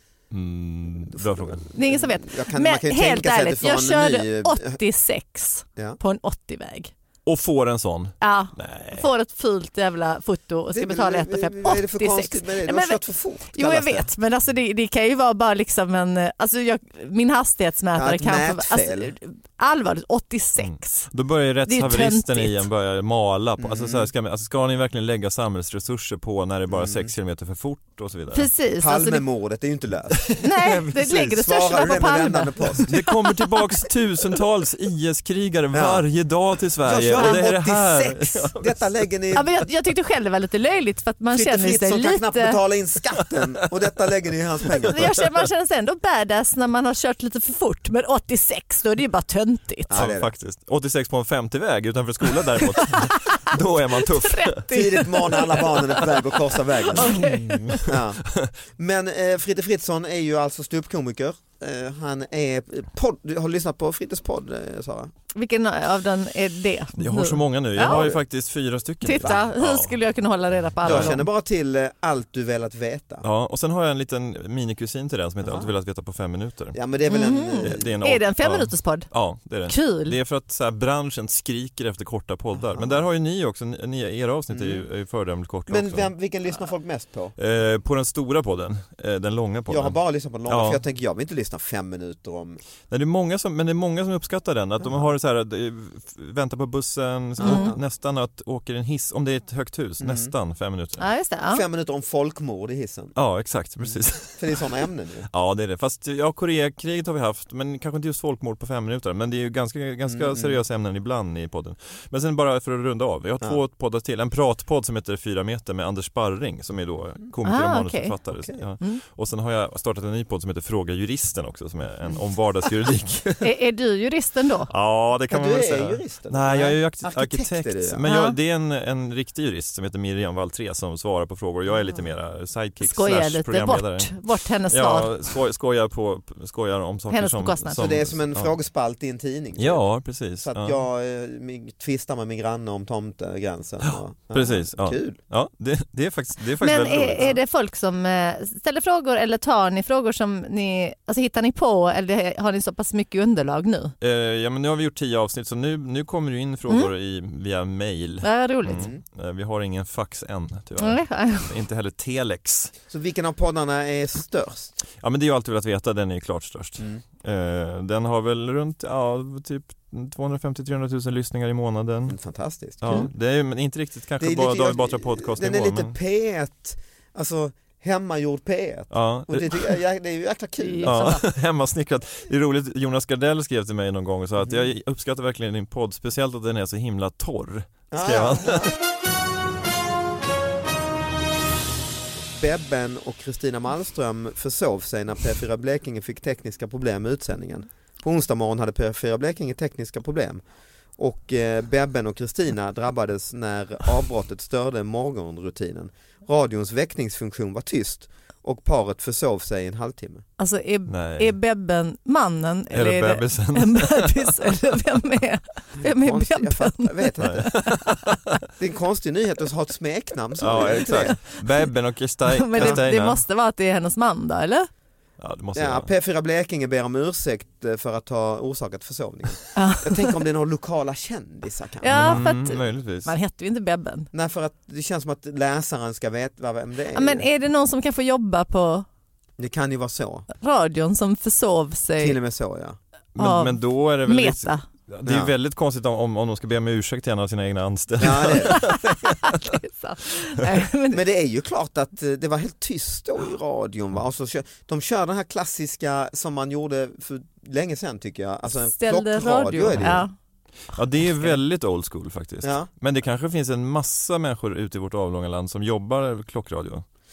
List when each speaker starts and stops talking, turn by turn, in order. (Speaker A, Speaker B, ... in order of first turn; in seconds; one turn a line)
Speaker A: 0.3-1.7
Speaker B: 1.1-4.8
Speaker C: 1.8-6.9
Speaker A: 7.2-9.1
Speaker C: 8.2-13.0
Speaker B: 10.7-14.1
Speaker C: 13.5-21.1
Speaker B: 17.9-19.1
Speaker A: 20.6-28.5
Speaker C: 21.7-22.6
Speaker B: 23.6-24.1
Speaker B: 26.7-27.1
Speaker C: 28.3-29.2
Speaker B: 28.8-32.9
Speaker A: 30.3-30.8
Speaker C: 30.4-33.6
Speaker A: 32.9-39.0
Speaker B: 35.7-36.1
Speaker B: 36.8-39.5
Speaker C: 37.2-38.2
Speaker C: 39.4-42.6
Speaker B: 41.3-45.1
Speaker C: 44.9-49.9
Speaker B: 49.9-50.3
Speaker A: 49.9-54.6
Speaker C: 52.8-53.1
Speaker C: 54.2-56.2
Speaker B: 54.7-57.2
Speaker C: 56.9-57.9
Speaker A: 57.1-58.5
Speaker B: 57.9-58.2
Speaker B: 58.8-65.1
Speaker C: 65.3-68.1
Speaker A: 67.0-70.0
Speaker B: 67.8-68.2
Speaker C: 69.0-71.2
Speaker A: 70.8-71.2
Speaker B: 70.8-73.2
Speaker A: 73.2-76.8
Speaker B: 75.4-75.7
Speaker B: 76.7-77.9
Speaker C: 77.1-79.1
Speaker A: 77.6-86.1
Speaker C: 79.7-80.2
Speaker B: 82.5-83.1
Speaker B: 84.5-84.9
Speaker B: 85.7-87.3
Speaker A: 87.4-90.8
Speaker B: 89.7-92.6
Speaker A: 92.9-101.0
Speaker B: 94.8-95.1
Speaker B: 97.4-97.8
Speaker C: 97.4-97.7
Speaker B: 100.0-100.3
Speaker C: 101.0-101.6
Speaker B: 101.5-103.1
Speaker A: 103.2-104.6
Speaker B: 103.8-105.3
Speaker A: 105.3-123.5
Speaker B: 110.1-110.6
Speaker C: 117.5-118.2
Speaker B: 118.3-118.6
Speaker C: 123.4-124.7
Speaker A: 124.7-138.5
Speaker B: 125.3-128.0
Speaker C: 128.1-128.4
Speaker C: 132.8-135.1
Speaker C: 137.1-137.8
Speaker B: 137.8-139.8
Speaker A: 139.6-140.8
Speaker B: 140.4-145.2
Speaker A: 143.9-147.3
Speaker C: 146.6-153.9
Speaker A: 154.0-162.7
Speaker C: 158.2-158.9
Speaker B: 158.7-159.0
Speaker C: 160.8-161.5
Speaker B: 162.9-164.8
Speaker A: 165.0-172.2
Speaker B: 172.1-173.1
Speaker A: 172.8-175.9
Speaker B: 174.2-181.2
Speaker A: 178.9-179.8
Speaker C: 180.6-181.2
Speaker A: 180.8-188.7
Speaker B: 184.4-184.7
Speaker B: 187.9-188.7
Speaker B: 192.3-200.4
Speaker B: 201.0-210.2
Speaker C: 210.4-217.7
Speaker A: 210.9-211.3
Speaker A: 212.7-214.5
Speaker B: 215.8-217.6
Speaker A: 217.2-218.2
Speaker B: 218.6-221.2
Speaker A: 220.4-223.2
Speaker C: 220.6-221.1
Speaker C: 222.3-224.7
Speaker B: 222.6-222.8
Speaker A: 225.2-225.9
Speaker B: 225.6-232.3
Speaker C: 229.6-230.2
Speaker C: 231.8-234.1
Speaker A: 231.9-233.2
Speaker B: 234.1-237.3
Speaker C: 236.9-238.9
Speaker B: 239.4-240.3
Speaker C: 240.4-242.2
Speaker B: 242.0-242.8
Speaker A: 243.2-248.8
Speaker C: 243.2-244.6
Speaker B: 245.1-245.3
Speaker B: 248.0-248.8
Speaker C: 248.5-251.0
Speaker B: 250.9-260.1
Speaker C: 258.7-260.1
Speaker A: 260.7-266.8
Speaker B: 262.4-262.7